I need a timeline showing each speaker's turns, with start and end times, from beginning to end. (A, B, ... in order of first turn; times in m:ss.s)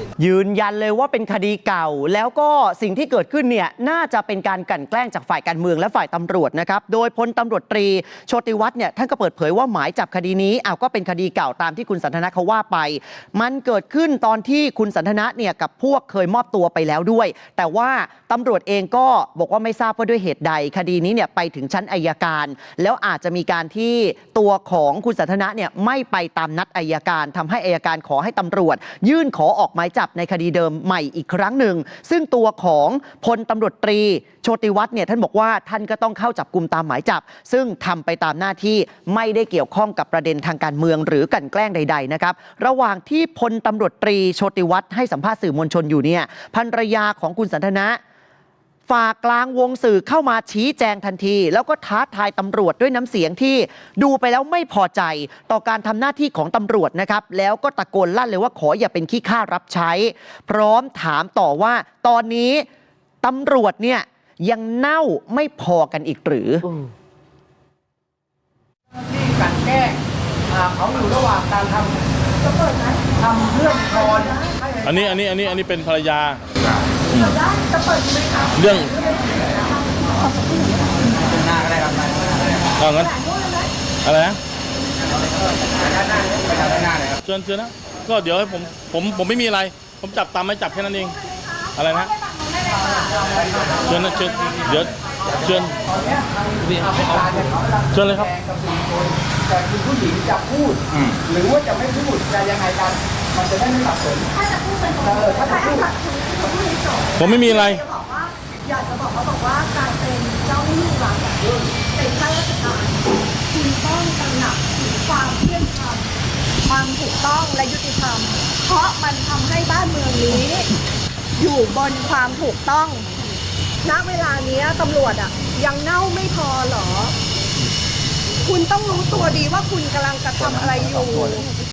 0:00.2-0:48.0 A
0:48.9-1:02.7 A
1:03.2-1:06.7 A
1:09.0-1:12.0 B
1:12.5-1:13.0 C
1:13.1-1:15.1 B
1:14.8-1:16.4 D
1:17.1-1:17.4 D
1:17.4-1:18.4 C
1:18.5-1:19.0 D
1:19.0-1:21.0 C
1:22.8-1:23.2 D
1:23.2-1:23.7 C
1:24.0-1:24.4 D
1:27.2-1:32.1 D
1:31.3-1:33.0 C
1:32.7-1:34.6 B
1:33.8-1:35.8 D
1:35.3-1:44.4 B
1:37.9-1:38.3 D
1:44.4-1:45.0 C
1:45.0-1:45.9 B
1:46.0-1:51.4 C
1:47.2-1:47.8 D
1:52.1-1:54.5 C
1:55.2-1:56.0 C
1:56.8-2:00.7 C
2:01.4-2:03.1 C
2:03.9-2:07.1 C
2:08.5-2:11.6 C